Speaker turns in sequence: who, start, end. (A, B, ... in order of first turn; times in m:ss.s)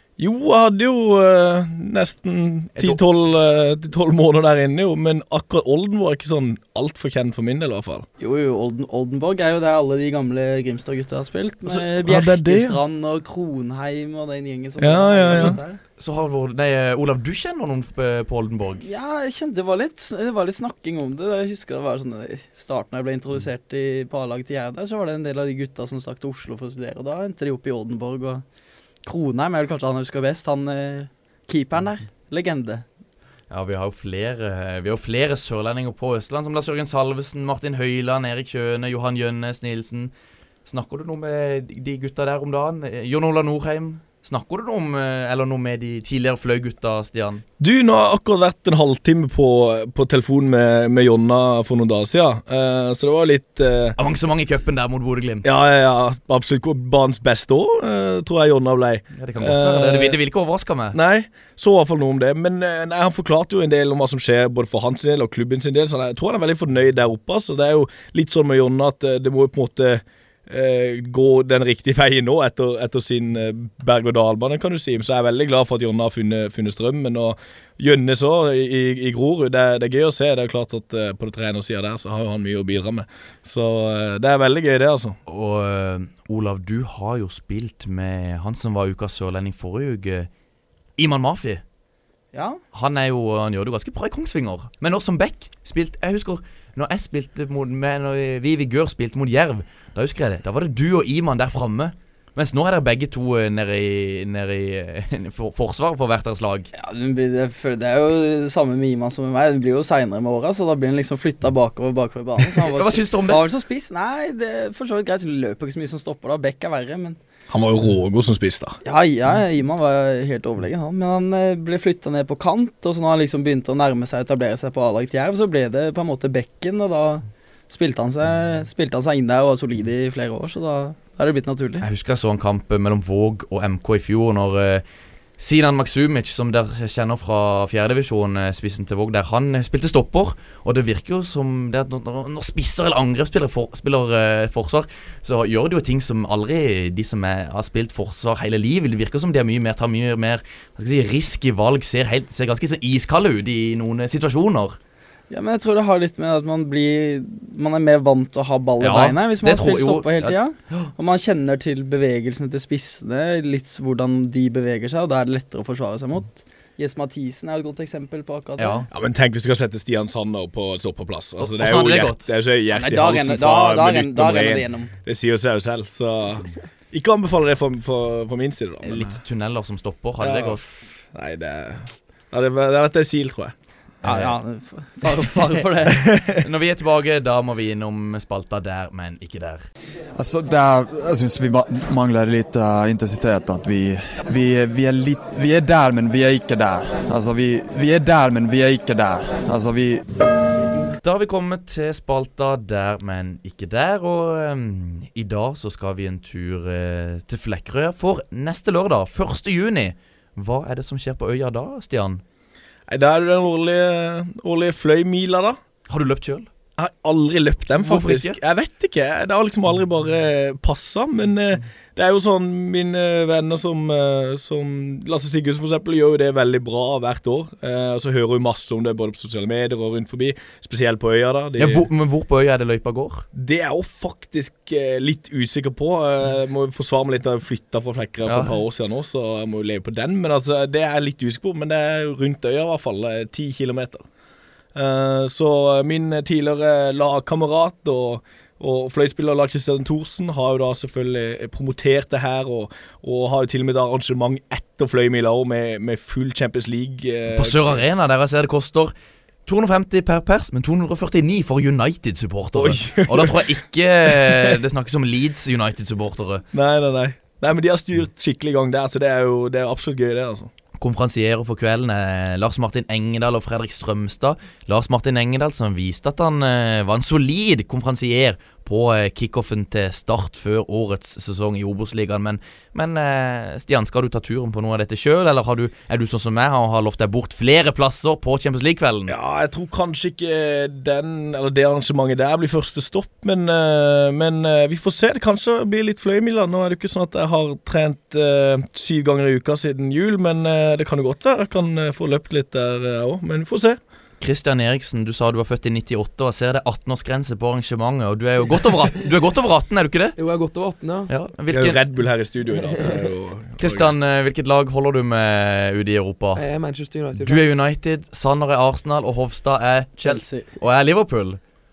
0:00.2-0:08.1 A
0:02.8-0:03.0 B
0:08.2-0:15.8 C
0:12.0-0:12.8 A
0:14.8-0:15.6 A
0:15.3-0:18.8 B
0:18.8-0:28.4 C
0:29.1-0:32.8 C
0:33.5-0:40.1 B
0:40.7-0:47.4 B
0:47.6-0:54.0 A
0:54.0-0:55.6 B
0:55.4-1:00.2 A
0:59.2-1:01.0 B
1:00.9-1:25.2 A
1:25.3-1:30.3 B
1:31.0-1:31.6 B
1:32.3-1:32.6 C
1:32.7-1:46.7 B
1:46.7-1:57.2 C
1:52.6-1:53.4 B
1:57.5-1:58.8 A
1:58.8-2:11.9 C
2:11.8-2:14.8 B
2:15.4-2:34.8 B
2:35.3-2:48.8 C
2:38.8-2:40.9 B
2:48.6-2:48.9 B
2:48.9-2:59.2 A
2:51.4-2:52.3 B
2:52.7-2:54.9 C
2:58.8-3:00.7 B
3:00.2-3:03.5 A
3:04.0-3:04.4 B
3:04.0-3:06.0 C
3:06.0-3:06.4 A
3:06.4-3:09.7 B
3:10.2-3:20.0 D
3:21.0-3:32.2 B
3:32.9-3:35.6 A
3:35.9-3:36.5 B
3:36.8-3:51.9 A
3:37.8-3:38.4 B
3:51.6-3:53.3 B
3:53.3-4:04.0 A
3:58.3-3:58.5 B
4:04.8-4:17.8 A
4:17.4-4:18.9 B
4:19.5-4:26.4 B
4:22.6-4:23.5 A
4:26.5-4:30.5 A
4:30.8-4:49.1 B
4:49.1-5:03.8 A
5:04.2-5:10.2 B
5:10.2-5:11.1 E
5:11.1-5:11.8 B
5:11.5-5:13.9 A
5:13.6-5:16.4 B
5:16.4-5:17.4 E
5:17.2-5:21.4 B
5:20.0-5:20.5 C